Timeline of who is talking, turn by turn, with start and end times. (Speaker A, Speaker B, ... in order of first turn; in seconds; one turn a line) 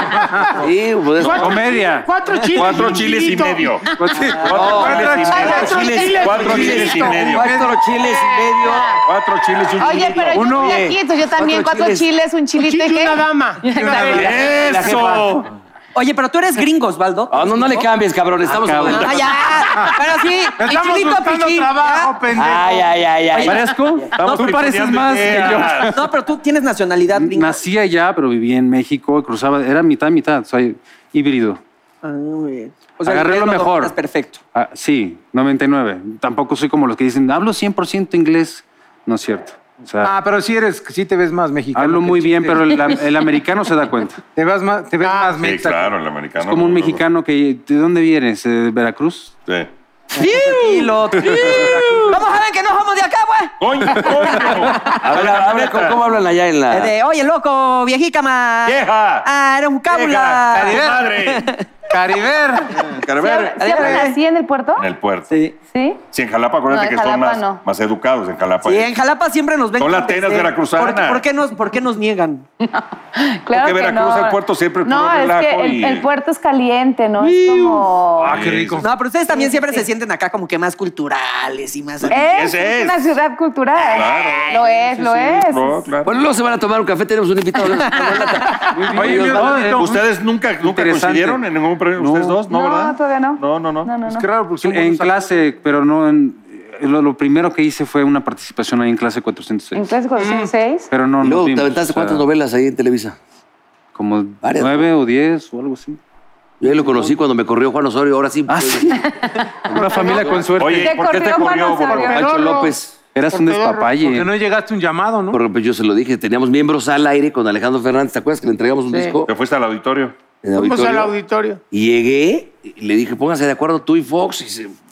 Speaker A: 0.1-0.6
Speaker B: 0.5-1.6
Speaker C: 1.2-3.8
Speaker D: 1.3-2.6
Speaker E: 2.5-7.6
Speaker D: 4.0-4.7
Speaker A: 4.1-7.8
Speaker B: 4.5-9.0
Speaker F: 5.3-6.2
Speaker C: 5.3-7.3
Speaker F: 8.6-8.9
Speaker E: 9.0-10.6
Speaker F: 9.8-14.4
Speaker A: 10.3-10.8
Speaker B: 10.5-12.1
Speaker C: 12.6-14.3
Speaker A: 13.8-14.3
Speaker B: 13.9-15.4
Speaker E: 14.1-15.5
Speaker G: 15.9-17.9
Speaker B: 17.3-19.3
Speaker D: 18.4-19.2
Speaker G: 18.9-22.1
Speaker A: 20.6-22.9
Speaker B: 22.3-23.6
Speaker G: 23.3-23.7
Speaker D: 23.4-26.1
Speaker E: 23.4-25.9
Speaker G: 25.4-27.6
Speaker D: 27.1-31.6
Speaker G: 32.0-34.4
Speaker D: 33.0-33.9
Speaker D: 34.5-40.1
Speaker A: 40.0-42.9
Speaker D: 41.7-44.2
Speaker A: 44.3-46.0
Speaker C: 45.0-45.4
Speaker E: 45.4-47.0
Speaker D: 46.3-49.4
Speaker G: 50.1-54.9
Speaker A: 50.2-52.2
Speaker E: 53.6-56.0
Speaker B: 55.0-56.9
Speaker G: 56.7-61.6
Speaker E: 58.6-59.3
Speaker E: 59.9-61.5
Speaker A: 60.5-61.1
Speaker A: 61.9-62.8
Speaker E: 62.7-64.0
Speaker F: 63.2-64.9
Speaker G: 63.6-64.2
Speaker E: 64.8-65.3
Speaker G: 65.3-65.5
Speaker F: 65.7-66.0
Speaker E: 66.1-68.9
Speaker F: 66.7-67.6
Speaker G: 68.6-72.5
Speaker E: 69.8-71.2
Speaker F: 72.6-78.4
Speaker E: 73.5-76.0
Speaker A: 77.2-78.9
Speaker E: 78.2-78.8
Speaker G: 78.8-82.2
Speaker F: 79.3-79.9
Speaker E: 82.0-83.0
Speaker F: 82.1-85.8
Speaker E: 83.8-86.1
Speaker G: 84.1-84.6
Speaker B: 86.0-89.7
Speaker D: 88.7-90.0
Speaker A: 88.9-90.0
Speaker E: 89.0-94.0
Speaker D: 90.6-92.4
Speaker F: 92.5-94.3
Speaker A: 94.0-95.4
Speaker D: 94.6-99.8
Speaker F: 99.7-100.9
Speaker C: 100.2-100.5
Speaker D: 100.9-102.2
Speaker B: 101.2-103.2
Speaker D: 103.9-106.0
Speaker B: 104.4-104.9
Speaker B: 106.6-108.9
Speaker D: 108.5-109.0
Speaker F: 109.0-112.2
Speaker D: 109.6-111.0
Speaker B: 109.7-110.5
Speaker E: 110.6-112.3
Speaker C: 112.0-112.8
Speaker B: 112.0-113.0
Speaker D: 113.1-114.3
Speaker C: 113.3-114.0
Speaker A: 114.0-115.4
Speaker B: 115.3-119.3
Speaker C: 118.9-119.2
Speaker E: 119.2-120.2
Speaker B: 120.4-121.2
Speaker C: 120.5-121.6
Speaker B: 121.7-124.8